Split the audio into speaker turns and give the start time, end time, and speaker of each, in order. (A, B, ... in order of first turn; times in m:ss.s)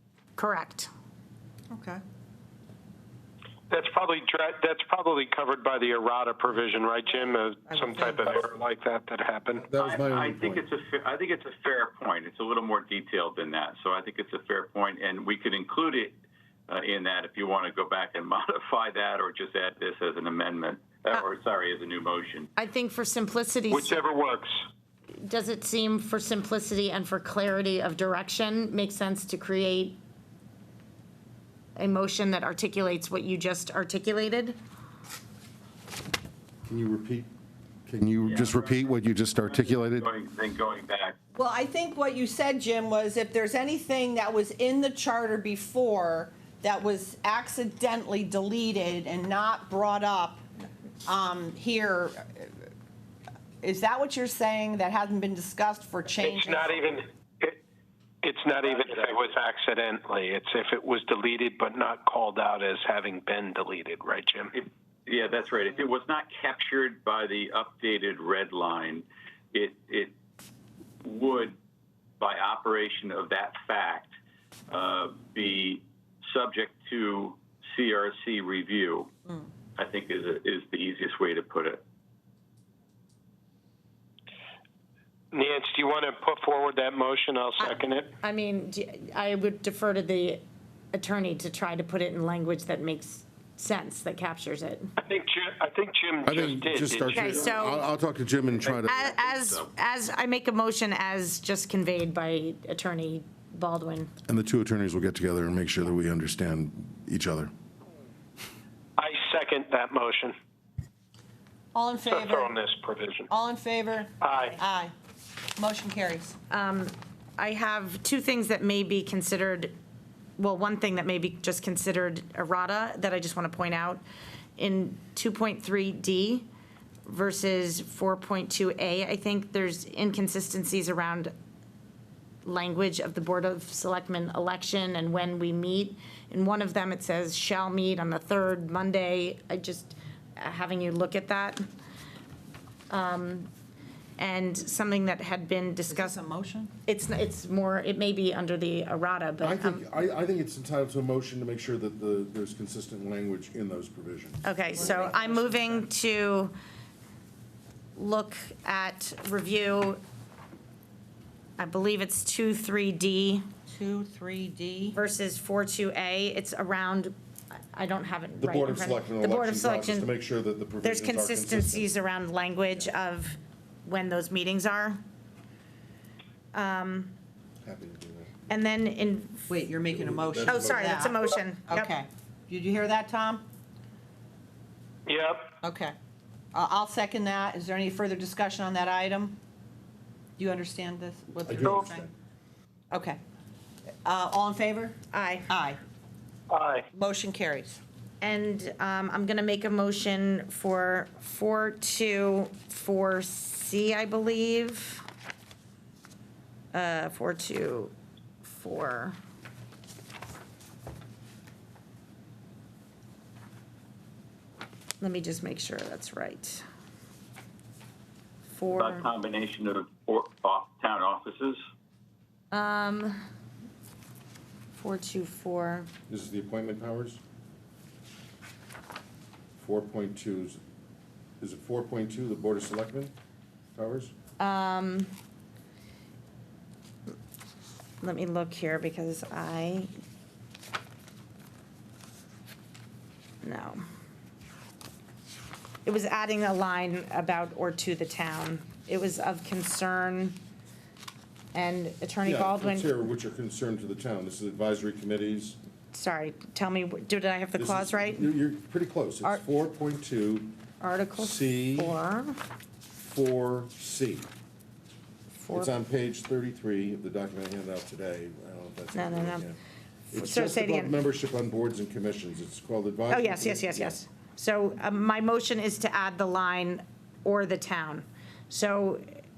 0:00.4-0:00.9 A
0:01.7-0:02.0 B
0:03.7-0:09.6 C
0:07.7-0:08.2 B
0:09.6-0:10.6 D
0:09.8-0:16.2 E
0:16.7-0:22.5 E
0:22.6-0:24.1 A
0:23.7-0:24.6 C
0:25.2-0:30.0 A
0:31.8-0:34.6 A
0:36.6-0:37.3 D
0:37.8-0:40.1 D
0:38.2-0:41.2 E
0:41.3-0:50.4 B
0:51.0-0:52.6 B
0:53.6-0:56.8 B
0:56.2-0:57.6 C
0:58.2-1:04.5 C
0:58.6-0:59.3 E
1:04.6-1:10.1 E
1:11.0-1:11.6 E
1:12.2-1:14.2 E
1:14.7-1:19.1 E
1:19.8-1:21.8 E
1:25.3-1:28.1 C
1:27.6-1:30.4 A
1:30.9-1:34.9 A
1:35.0-1:37.8 C
1:36.2-1:39.1 D
1:37.0-1:37.8 A
1:38.6-1:39.7 E
1:38.8-1:44.1 A
1:44.3-1:47.5 D
1:49.0-1:50.3 C
1:51.7-1:52.6 B
1:52.1-1:53.3 C
1:53.3-1:54.9 B
1:54.2-1:54.6 C
1:55.6-1:56.4 B
1:56.5-1:59.7 A
2:00.4-2:04.0 A
2:04.6-2:06.4 A
2:07.0-2:11.3 A
2:12.4-2:21.6 A
2:22.9-2:23.5 A
2:24.2-2:26.2 A
2:25.9-2:26.7 B
2:26.8-2:29.9 A
2:29.4-2:35.2 D
2:34.4-2:36.5 A
2:34.7-2:35.9 B
2:38.0-2:40.0 A
2:41.6-2:43.4 A
2:43.7-2:45.0 B
2:44.9-2:47.1 A
2:47.7-2:50.1 A
2:48.4-2:51.9 D
2:50.8-2:55.0 A
2:56.5-2:57.1 A
2:57.6-2:58.5 D
2:58.5-2:59.6 A
2:59.5-3:03.4 B
2:59.8-3:00.9 D
3:00.4-3:01.9 A
3:05.0-3:05.5 C
3:05.6-3:05.9 B
3:06.5-3:09.4 B
3:10.4-3:12.0 B
3:11.4-3:12.1 D
3:12.9-3:13.2 B
3:14.0-3:15.8 B
3:15.1-3:15.5 A
3:16.5-3:16.8 C
3:16.9-3:17.8 B
3:18.2-3:25.0 A
3:26.7-3:29.1 A
3:35.0-3:36.6 A
3:38.5-3:39.1 A
3:38.7-3:41.6 E
3:42.5-3:43.1 A
3:44.7-3:45.9 A
3:46.1-3:47.2 D
3:49.6-3:50.6 D
3:51.4-3:53.1 D
3:53.7-3:54.1 D
3:54.4-3:55.1 A
3:58.0-3:59.9 A
4:03.4-4:03.8 A
4:05.8-4:10.4 A
4:11.5-4:12.9 A
4:12.2-4:15.6 D
4:15.9-4:18.3 A
4:17.6-4:20.6 D
4:20.8-4:22.4 A
4:21.2-4:22.0 D
4:23.0-4:24.3 D
4:25.4-4:25.7 A
4:25.5-4:29.6 D
4:28.9-4:29.5 A
4:30.1-4:31.0 A
4:30.1-4:34.0 D
4:33.1-4:39.0 A